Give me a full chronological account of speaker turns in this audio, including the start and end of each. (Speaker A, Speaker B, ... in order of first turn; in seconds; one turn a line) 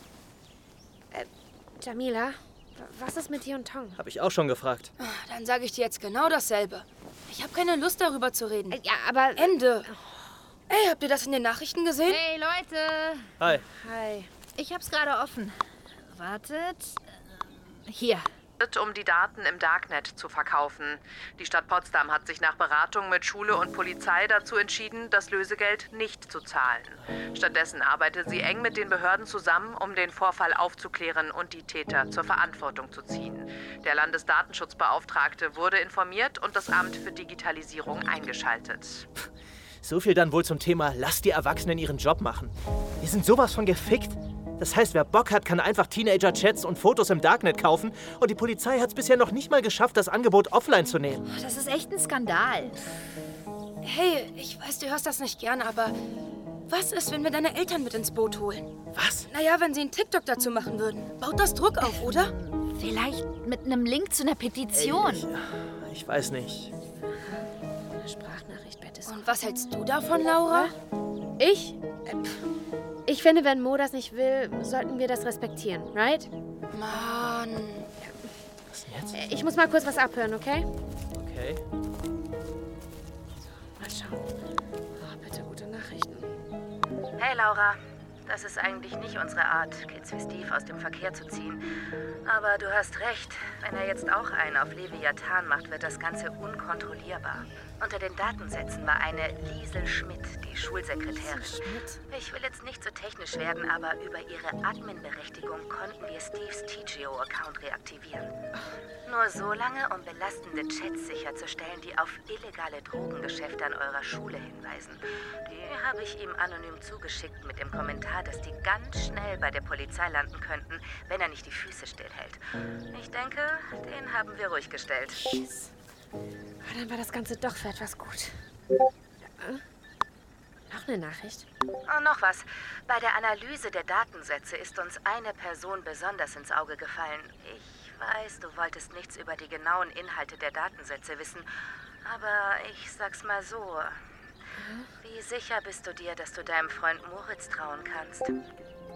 Speaker A: 1.1-4.0
Speaker B: 4.0-4.9
Speaker C: 5.0-8.8
Speaker A: 8.7-10.0
Speaker C: 9.4-9.9
Speaker C: 10.7-12.2
Speaker D: 12.1-13.3
Speaker B: 13.4-13.6
Speaker A: 13.5-14.3
Speaker D: 14.6-18.3
Speaker E: 18.6-39.1
Speaker B: 39.8-51.2
Speaker D: 51.3-52.8
Speaker C: 53.8-56.0
Speaker C: 56.7-58.7
Speaker B: 58.9-59.2
Speaker C: 59.2-62.3
Speaker D: 62.2-65.2
Speaker B: 64.7-66.7
Speaker A: 67.2-69.2
Speaker C: 69.0-70.7
Speaker A: 71.4-72.4
Speaker A: 73.0-76.3
Speaker C: 76.7-77.9
Speaker B: 78.7-79.2
Speaker A: 79.1-80.7
Speaker B: 81.1-81.6
Speaker A: 83.8-84.2
Speaker A: 85.0-86.3
Speaker F: 87.2-91.6
Speaker F: 92.2-108.3
Speaker A: 101.1-102.0
Speaker F: 109.0-122.4
Speaker F: 122.9-125.2
Speaker A: 125.1-125.7
Speaker A: 126.6-128.4
Speaker A: 129.3-129.6
Speaker A: 130.7-131.4
Speaker F: 131.9-141.5
Speaker F: 142.0-144.0
Speaker A: 144.6-144.9
Speaker F: 145.0-148.3